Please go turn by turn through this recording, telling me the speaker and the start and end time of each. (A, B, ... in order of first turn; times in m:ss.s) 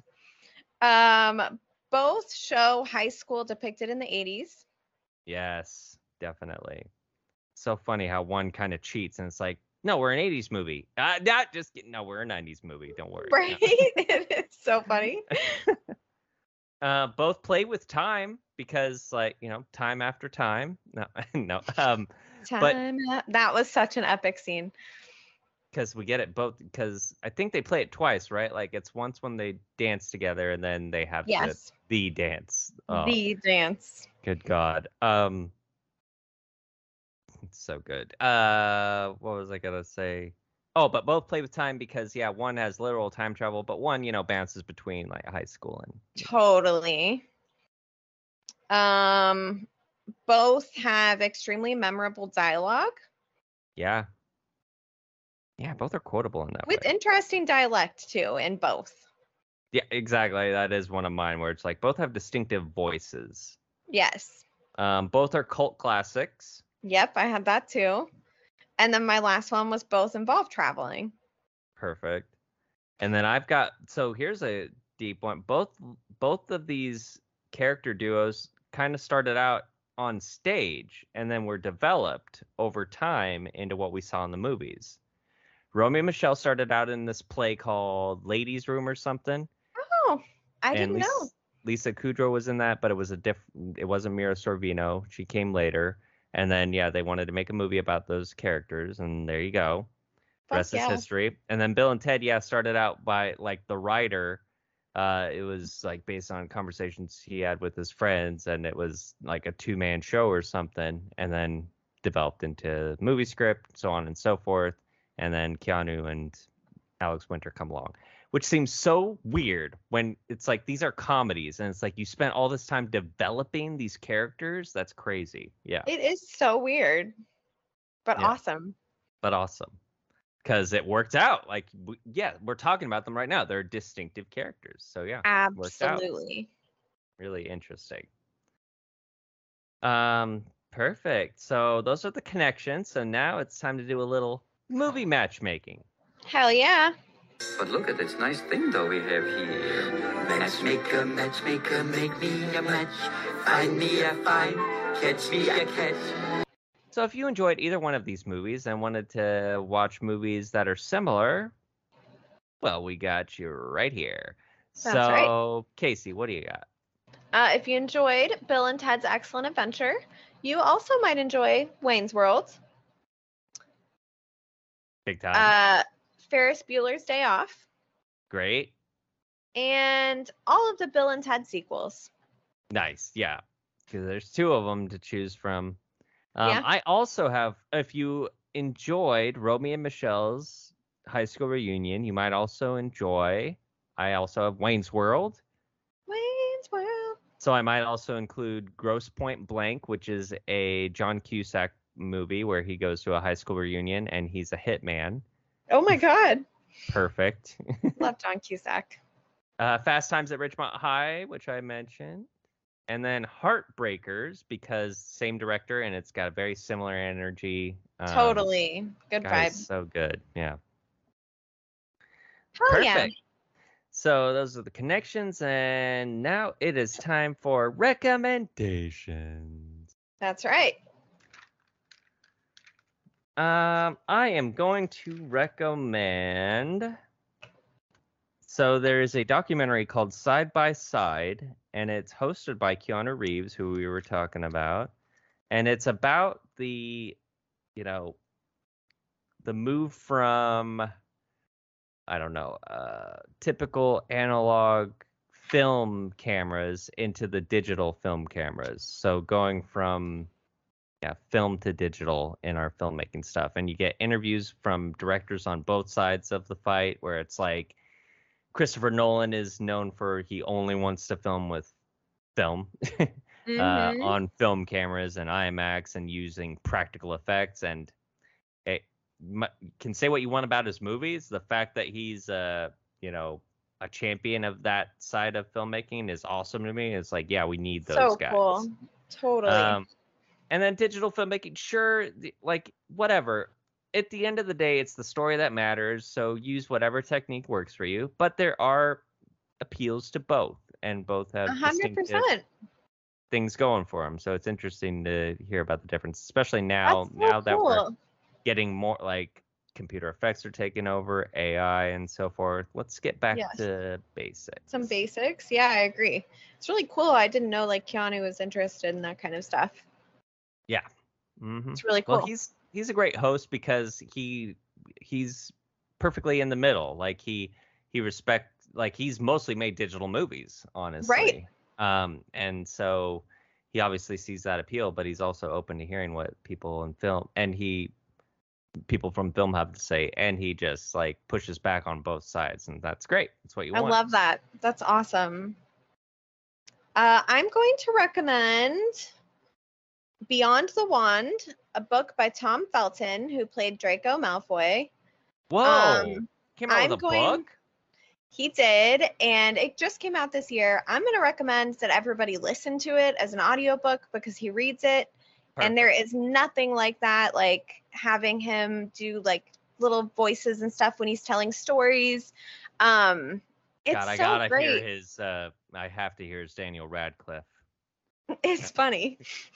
0:00.8-0:04.6 A
0:05.3-0:06.9 B
0:07.6-0:13.7 B
0:13.3-0:15.6 A
0:16.8-0:22.8 B
0:22.5-0:24.7 A
0:25.7-0:33.2 B
0:31.3-0:31.7 A
0:32.9-0:34.1 A
0:34.2-0:35.5 B
0:37.5-0:46.3 B
0:46.2-0:47.2 A
0:48.7-0:49.7 A
0:50.3-0:53.0 A
0:53.8-0:54.1 B
0:55.6-0:56.9 B
0:56.7-0:59.0 A
0:59.7-1:03.6 B
1:03.9-1:04.4 A
1:04.8-1:06.6 B
1:06.8-1:08.1 A
1:08.8-1:11.1 A
1:11.8-1:12.3 B
1:13.0-1:25.0 B
1:25.7-1:29.5 B
1:29.8-1:31.3 A
1:30.7-1:39.9 B
1:40.5-1:41.0 A
1:40.5-1:44.4 B
1:45.0-1:56.4 B
1:57.0-2:05.9 B
2:05.9-2:07.1 A
2:08.0-2:08.8 A
2:09.2-2:09.8 B
2:10.4-2:16.1 B
2:15.2-2:16.5 A
2:17.2-2:18.1 B
2:19.8-2:25.8 B
2:26.3-2:26.9 A
2:27.6-2:36.2 C
2:36.9-2:41.5 B
2:42.6-2:46.6 B
2:44.8-2:45.3 A
2:47.3-2:52.6 A
2:55.1-2:55.5 B
2:55.3-2:57.7 A
2:58.3-2:58.7 B
2:59.6-3:02.1 A
3:02.7-3:05.8 B
3:06.4-3:15.4 B
3:16.1-3:17.2 A
3:17.4-3:25.2 B
3:25.7-3:26.4 A
3:26.9-3:28.1 B
3:28.0-3:29.0 A
3:29.6-3:32.3 B
3:32.9-3:38.5 B
3:38.1-3:39.6 A
3:39.2-3:40.6 B
3:42.6-3:43.1 A
3:42.7-3:43.1 B
3:43.9-3:49.8 B
3:50.2-3:50.8 A
3:53.4-3:57.0 B
3:58.4-4:04.9 B
4:05.5-4:07.2 B
4:07.8-4:08.2 B
4:09.4-4:10.9 B
4:12.1-4:20.3 B
4:21.0-4:27.8 B
4:28.5-4:31.7 B
4:32.4-4:37.9 B
4:33.5-4:34.2 A
4:38.6-4:48.7 B
4:47.9-4:49.8 A
4:49.5-4:49.9 B
4:50.5-4:59.0 B
4:59.6-5:02.2 B
5:01.5-5:02.5 A
5:03.3-5:07.8 B
5:06.9-5:08.0 A
5:08.4-5:14.7 B
5:13.3-5:13.6 A
5:14.7-5:19.8 A
5:21.4-5:37.9 B
5:21.8-5:22.3 A
5:31.0-5:31.4 A
5:38.9-5:44.0 B
5:43.7-5:45.6 A
5:47.0-5:49.1 A
5:50.3-5:54.9 A
5:55.5-5:57.5 B
5:55.6-5:57.4 A
5:58.3-6:14.8 A
6:05.6-6:05.9 B
6:13.9-6:17.5 B
6:18.4-6:19.2 A